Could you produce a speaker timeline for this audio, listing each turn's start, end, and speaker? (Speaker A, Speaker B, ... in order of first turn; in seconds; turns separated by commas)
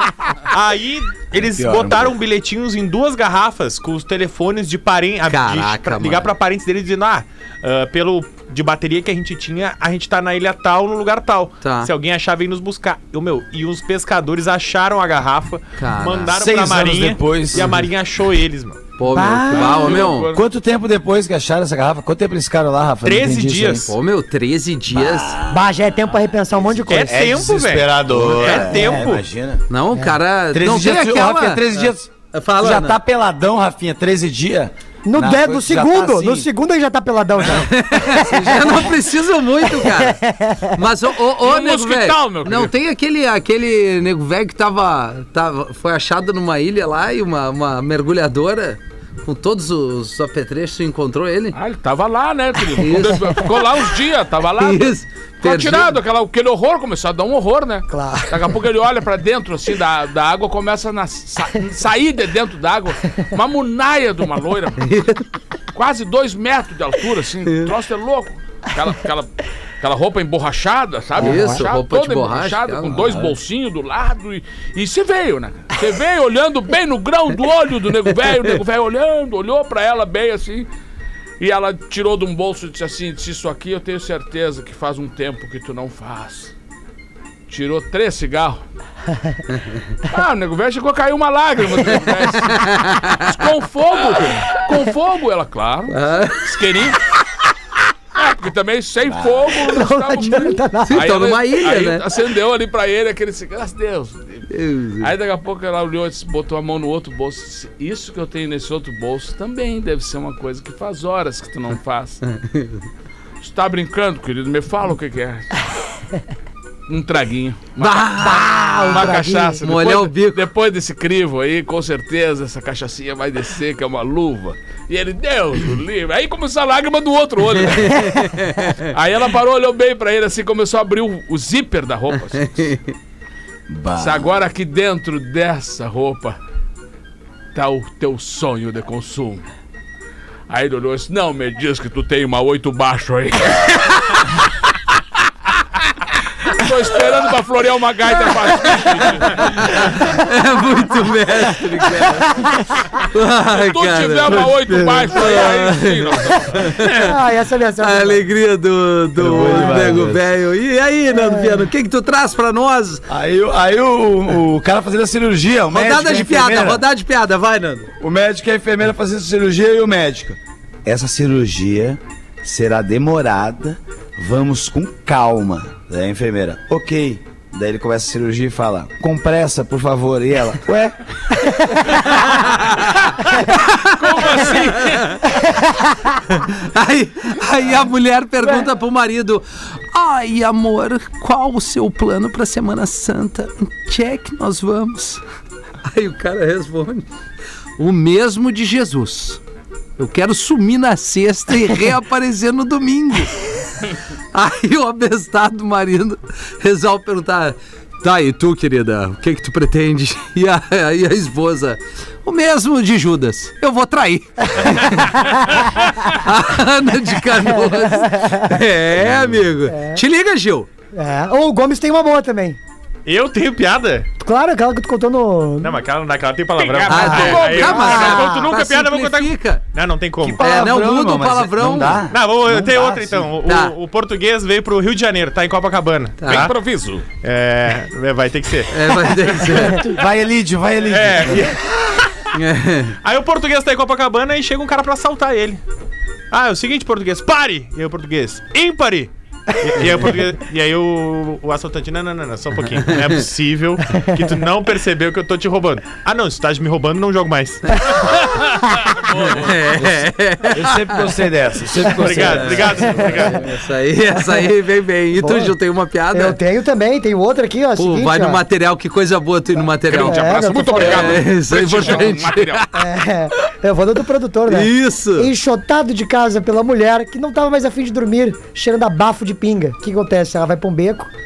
Speaker A: 0.5-18.8, Speaker B: 1.4-2.2, Speaker C: 5.3-6.3, Speaker C: 11.6-11.9, Speaker C: 15.8-16.4, Speaker B: 16.3-17.9, Speaker C: 19.0-20.3, Speaker D: 19.1-20.1, Speaker E: 19.5-20.4, Speaker B: 20.3-23.9, Speaker A: 23.0-23.9, Speaker C: 23.7-25.4, Speaker B: 24.9-25.6, Speaker D: 25.5-27.2, Speaker A: 26.9-29.2, Speaker B: 27.0-29.6, Speaker D: 28.7-29.0, Speaker C: 29.7-33.0, Speaker B: 30.5-36.5, Speaker D: 35.0-38.8, Speaker C: 37.5-40.2, Speaker D: 39.6-40.7, Speaker C: 40.7-51.6, Speaker E: 41.4-42.7, Speaker E: 51.5-65.0, Speaker C: 52.8-53.4, Speaker C: 54.6-56.0, Speaker D: 57.9-58.3, Speaker C: 64.8-65.2, Speaker E: 65.7-80.7, Speaker C: 67.5-67.7, Speaker C: 71.2-73.4, Speaker D: 71.2-71.6, Speaker E: 81.4-86.5, Speaker E: 87.5-88.6, Speaker E: 90.1-97.0, Speaker C: 92.5-93.3, Speaker C: 95.9-96.5, Speaker E: 98.2-104.5, Speaker B: 99.1-99.4, Speaker D: 99.6-101.1, Speaker C: 100.9-102.1, Speaker C: 104.5-105.1, Speaker E: 105.0-112.2, Speaker C: 112.3-112.8, Speaker E: 113.4-115.7, Speaker E: 116.9-118.1, Speaker C: 117.8-120.5, Speaker D: 118.2-119.6, Speaker E: 118.9-132.8, Speaker C: 127.8-128.9, Speaker C: 132.4-132.9, Speaker B: 133.7-134.4, Speaker E: 134.0-136.4, Speaker E: 137.5-139.5, Speaker E: 140.5-144.3, Speaker E: 146.4-149.9, Speaker C: 149.3-152.4, Speaker C: 153.1-154.5, Speaker E: 153.4-156.7, Speaker B: 154.4-155.3, Speaker C: 155.2-157.1, Speaker D: 156.9-158.3, Speaker C: 157.8-163.0, Speaker B: 159.2-160.3, Speaker D: 159.3-160.0, Speaker D: 161.1-161.7, Speaker B: 163.1-166.8, Speaker C: 165.7-167.9, Speaker B: 168.0-181.0, Speaker E: 182.9-185.3, Speaker C: 183.5-185.2, Speaker D: 185.6-185.9, Speaker C: 186.4-195.2, Speaker C: 195.8-197.1, Speaker C: 197.8-199.4, Speaker C: 200.0-203.4, Speaker C: 204.3-220.7, Speaker D: 217.4-218.6, Speaker D: 219.7-220.0, Speaker D: 220.9-222.6, Speaker A: 223.1-224.1, Speaker D: 224.2-225.8, Speaker A: 225.6-230.4, Speaker E: 226.6-228.3, Speaker C: 226.9-229.6, Speaker D: 227.0-228.5, Speaker B: 230.2-233.3, Speaker C: 230.4-232.0, Speaker A: 232.1-236.6, Speaker C: 233.4-233.8, Speaker C: 236.2-236.5, Speaker E: 236.3-237.1, Speaker A: 237.2-239.8, Speaker C: 238.7-239.8, Speaker B: 239.5-241.6, Speaker A: 240.9-242.1, Speaker C: 242.3-243.0, Speaker A: 243.0-245.6, Speaker A: 246.3-258.2, Speaker E: 259.1-259.5, Speaker C: 259.2-261.0, Speaker B: 260.5-263.0, Speaker A: 261.9-263.5, Speaker C: 262.0-266.4, Speaker D: 262.8-263.3, Speaker D: 264.1-264.5, Speaker D: 265.2-265.6, Speaker D: 266.1-268.4, Speaker C: 267.8-272.6, Speaker E: 269.9-272.7, Speaker D: 270.0-271.2, Speaker D: 272.7-281.1, Speaker C: 274.5-275.3